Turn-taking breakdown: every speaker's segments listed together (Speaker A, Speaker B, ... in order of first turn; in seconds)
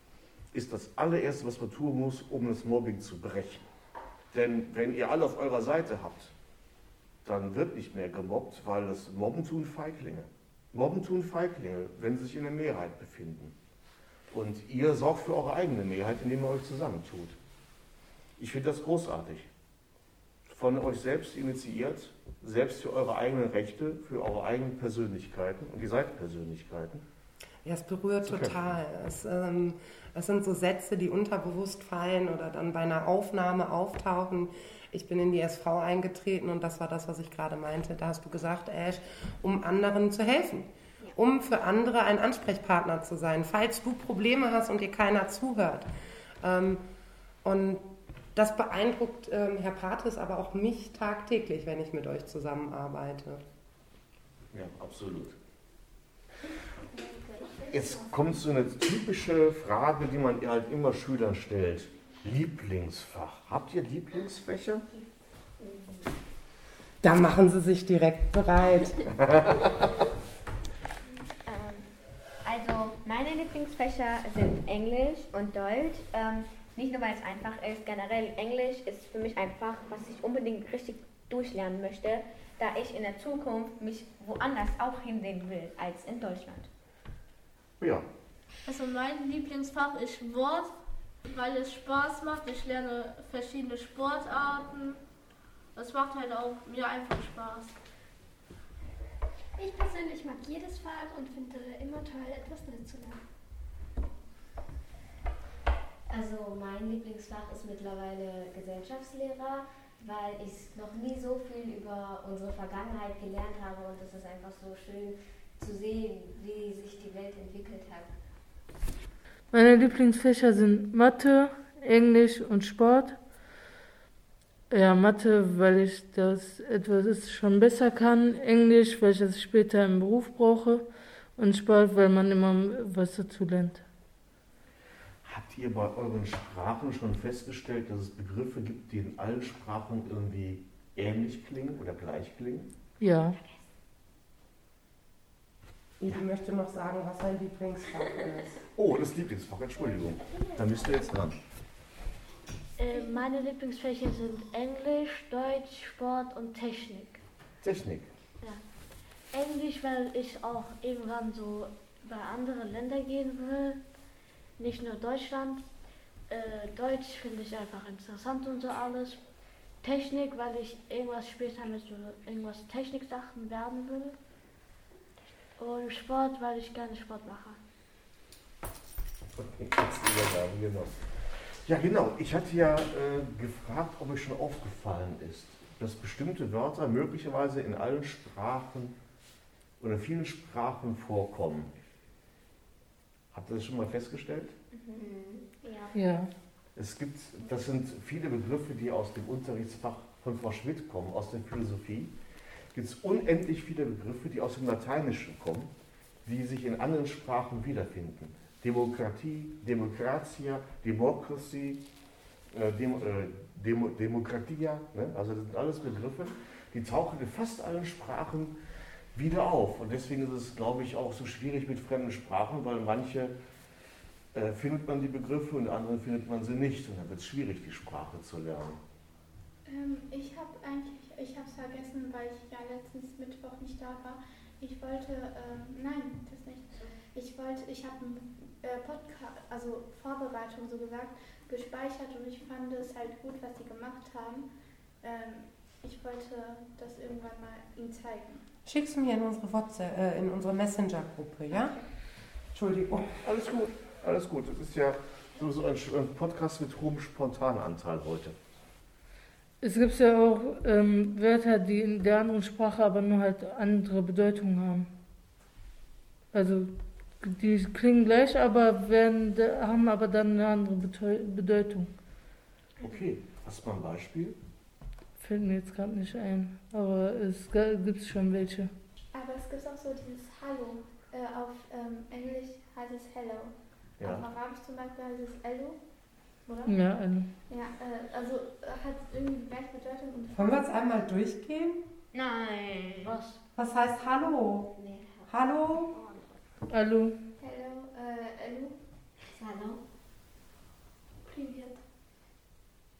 Speaker A: 0.5-3.7, 4.3-6.3, 7.2-13.5, 14.3-17.4, 18.4-19.5, 20.5-27.0, 28.2-28.6, 54.5-55.4, 57.7-64.9, 87.8-88.0, 135.2-142.7, 148.7-151.4, 157.6-158.1, 179.4-188.9, 189.8-191.7, 193.3-194.6, 196.8-202.1, 202.7-205.7, 206.2-211.8, 212.5-218.6, 219.1-223.3, 224.3-228.8, 253.2-258.4, 272.8-274.4, 284.0-284.3
Speaker B: 27.6-45.9, 46.4-46.8, 47.4-53.4, 67.0-69.0, 146.0-148.6, 248.7-251.8, 252.5-253.2, 290.3-291.8, 293.6-294.7, 295.3-295.9
Speaker C: 71.4-71.9, 72.4-86.7, 194.7-195.1, 195.6-195.9, 292.1-293.1
Speaker D: 88.6-95.0, 95.7-97.8
Speaker E: 99.6-103.2, 149.8-151.2, 152.9-153.2
Speaker F: 106.1-118.1, 195.0-195.4, 294.8-295.3, 295.9-296.2, 299.3-299.8
Speaker G: 119.5-123.2, 124.7-133.8, 143.0-143.4, 195.9-196.3, 259.6-264.9, 266.3-271.9, 275.2-278.7, 286.6-287.3, 296.7-297.2
Speaker H: 152.8-157.2, 159.3-163.8, 164.6-165.6, 166.3-169.2, 169.8-174.2, 175.6-177.6, 293.0-293.4
Speaker I: 229.6-248.4, 279.1-285.8, 286.4-286.8, 287.5-291.1, 297.4-298.8, 301.3-301.8